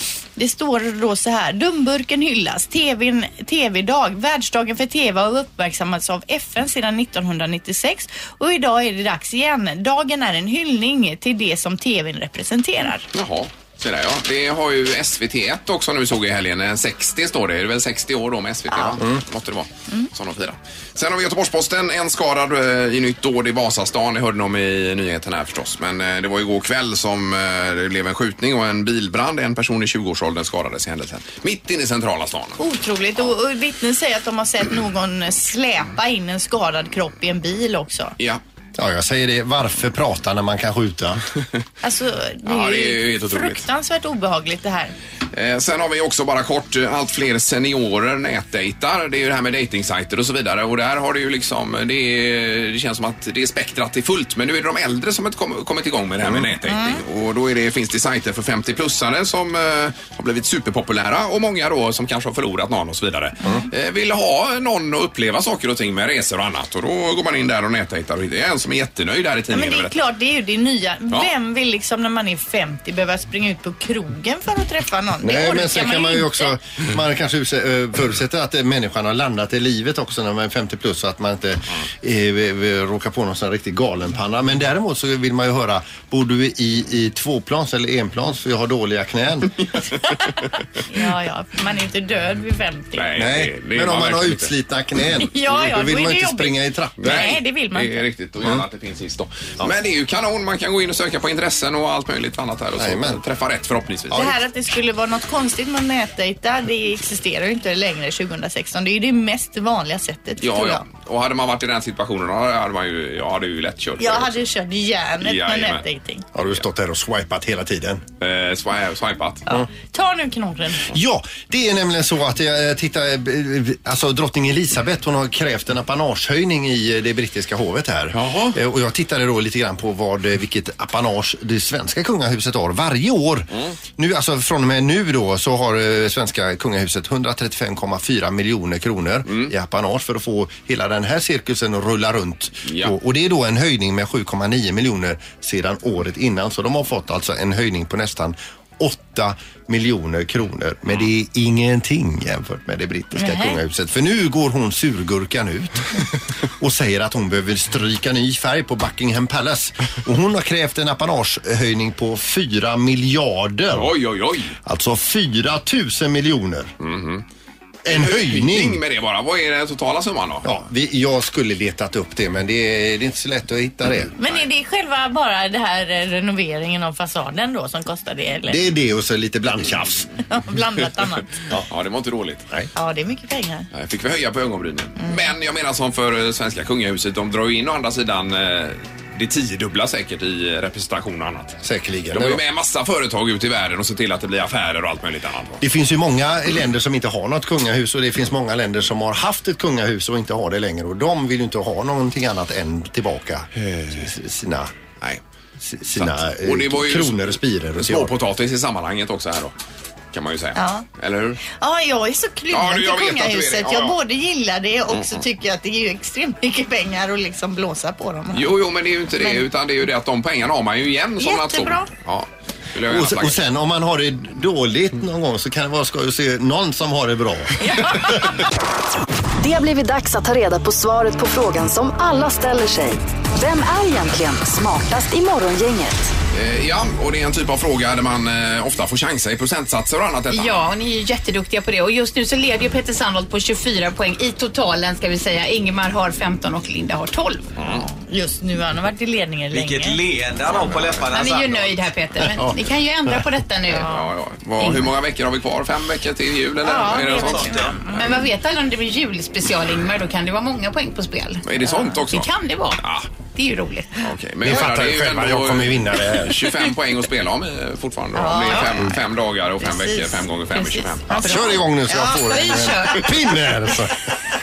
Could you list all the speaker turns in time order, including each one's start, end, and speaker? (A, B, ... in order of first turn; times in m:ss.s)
0:00.4-0:13.1 A
0:13.1-0:32.6 B
0:18.7-0:19.0 A
0:32.6-0:38.2 A
0:38.8-0:41.2 C
0:41.8-0:44.9 A
0:42.5-0:43.6 B
0:45.3-1:09.9 B
1:09.5-1:16.5 A
1:15.2-1:29.6 C
1:30.9-1:33.1 A
1:33.0-1:34.5 B
1:33.2-1:37.3 C
1:35.3-1:38.0 A
1:37.0-1:44.3 B
1:42.8-1:43.2 C
1:44.1-1:50.8 A
1:50.4-1:54.4 B
1:54.0-1:56.2 A
1:55.2-1:55.8 B
1:56.4-1:58.0 C
1:58.2-1:59.4 B
1:59.5-2:00.9 A
2:00.9-2:36.0 C
2:08.1-2:08.6 B
2:22.7-2:22.9 B
2:33.2-2:33.6 A
2:36.6-2:43.9 C
2:43.7-2:44.6 B
2:44.6-2:46.7 C
2:46.8-2:47.2 B
2:47.8-2:48.8 C
2:47.9-2:50.6 B
2:50.4-2:54.1 C
2:54.2-2:58.6 A
2:58.5-3:00.1 C
3:00.3-3:01.3 A
3:01.5-3:02.5 B
3:02.8-3:03.7 A
3:03.7-3:11.6 B
3:11.6-3:12.4 C
3:12.1-3:15.6 B
3:15.6-3:24.7 C
3:23.6-3:24.0 B
3:25.6-3:28.1 C
3:26.0-3:29.5 B
3:30.1-3:31.4 B
3:30.6-3:30.8 A
3:31.4-3:38.5 A
3:32.5-3:34.0 B
3:34.9-3:35.2 B
3:38.3-3:43.4 B
3:39.2-3:39.4 A
3:41.2-3:41.9 A
3:42.9-3:48.1 C
3:47.7-3:48.1 A
3:49.4-3:56.1 D
3:56.3-4:00.7 B
4:00.3-4:07.5 E
4:07.6-4:07.9 B
4:07.6-4:10.0 A
4:09.5-4:11.7 F
4:10.6-4:10.9 B
4:11.1-4:13.9 E
4:13.8-4:14.1 A
4:13.8-4:18.1 B
4:16.6-4:18.0 A
4:16.8-4:17.9 F
4:17.9-4:21.5 E
4:21.4-4:23.1 B
4:21.7-4:22.0 A
4:22.0-4:22.8 E
4:23.3-4:24.0 E
4:24.0-4:31.4 B
4:24.4-4:26.5 C
4:28.2-4:28.9 A
4:29.6-4:32.5 A
4:31.1-4:31.5 E
4:31.1-4:34.0 C
4:32.1-4:33.3 E